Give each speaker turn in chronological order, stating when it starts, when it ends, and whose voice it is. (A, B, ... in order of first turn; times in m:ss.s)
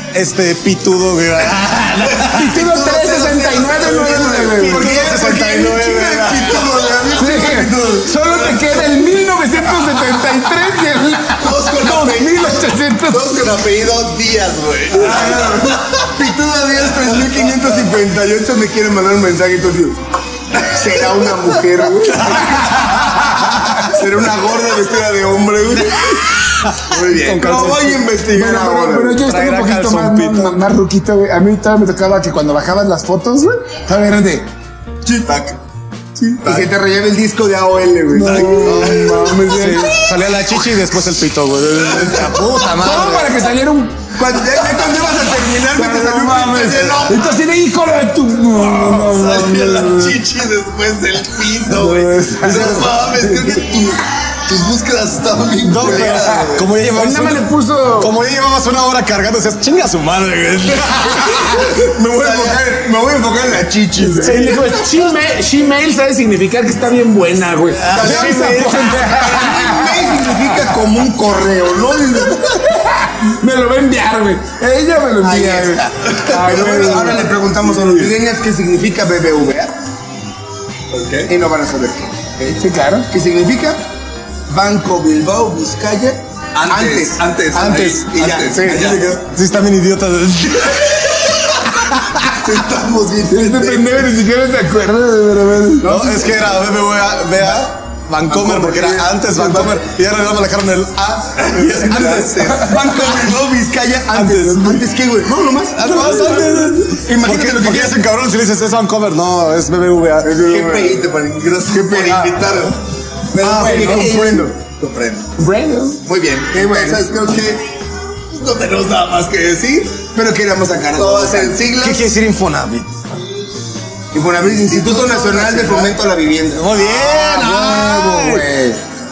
0:00.1-0:02.6 A
0:01.4-0:07.5 B
0:02.2-0:05.0 C
0:04.3-0:06.6 A
0:04.7-0:08.5 D
0:07.1-0:13.4 C
0:08.3-0:08.6 B
0:10.7-0:16.1 B
0:14.9-0:15.8 C
0:15.1-0:20.0 D
0:17.1-0:17.5 B
0:20.5-0:26.4 D
0:22.3-0:23.8 C
0:26.6-0:28.0 A
0:26.8-0:28.0 B
0:27.4-0:29.2 D
0:28.3-0:34.5 C
0:29.2-0:30.6 A
0:35.2-0:35.6 B
0:36.3-0:39.0 D
0:36.4-0:36.7 B
0:38.1-0:40.0 C
0:38.2-0:43.4 A
0:41.9-0:42.7 B
0:42.8-0:44.1 C
0:44.1-0:47.3 D
0:45.7-0:50.2 C
0:48.5-0:56.6 B
0:51.7-0:53.4 C
0:52.4-0:52.8 A
0:55.6-0:57.5 A
0:55.8-0:56.1 D
0:55.9-0:58.2 C
0:58.0-1:01.6 A
1:01.2-1:01.7 C
1:01.7-1:04.7 D
1:04.0-1:10.7 C
1:04.2-1:04.6 A
1:07.7-1:09.3 A
1:07.9-1:08.5 D
1:09.1-1:12.6 D
1:12.5-1:18.1 C
1:15.2-1:19.7 D
1:20.9-1:21.3 B
1:21.3-1:23.8 D
1:22.6-1:23.1 C
1:24.5-1:29.2 D
1:26.5-1:29.2 B
1:27.6-1:27.9 C
1:29.3-1:31.1 A
1:32.0-1:32.3 A
1:32.2-1:34.0 B
1:33.1-1:33.8 D
1:33.3-1:35.9 C
1:35.8-1:36.8 D
1:35.8-1:42.3 A
1:37.4-1:37.6 D
1:38.3-1:39.8 D
1:41.4-1:42.3 B
1:41.7-1:48.0 D
1:42.0-1:42.8 C
1:44.1-1:44.8 A
1:45.7-1:50.3 A
1:46.4-1:46.8 C
1:50.2-1:51.1 D
1:50.4-1:52.8 B
1:51.6-1:52.7 D
1:53.3-1:54.6 D
1:53.4-1:55.3 B
1:53.4-1:54.0 A
1:53.6-1:54.4 C
1:55.4-1:56.0 C
1:56.0-1:57.6 B
1:56.5-1:57.0 D
1:58.3-2:00.0 B
2:00.1-2:01.6 D
2:00.9-2:02.1 B
2:01.8-2:02.9 A
2:04.1-2:06.9 D
2:04.4-2:06.0 B
2:06.5-2:08.4 A
2:06.9-2:08.8 C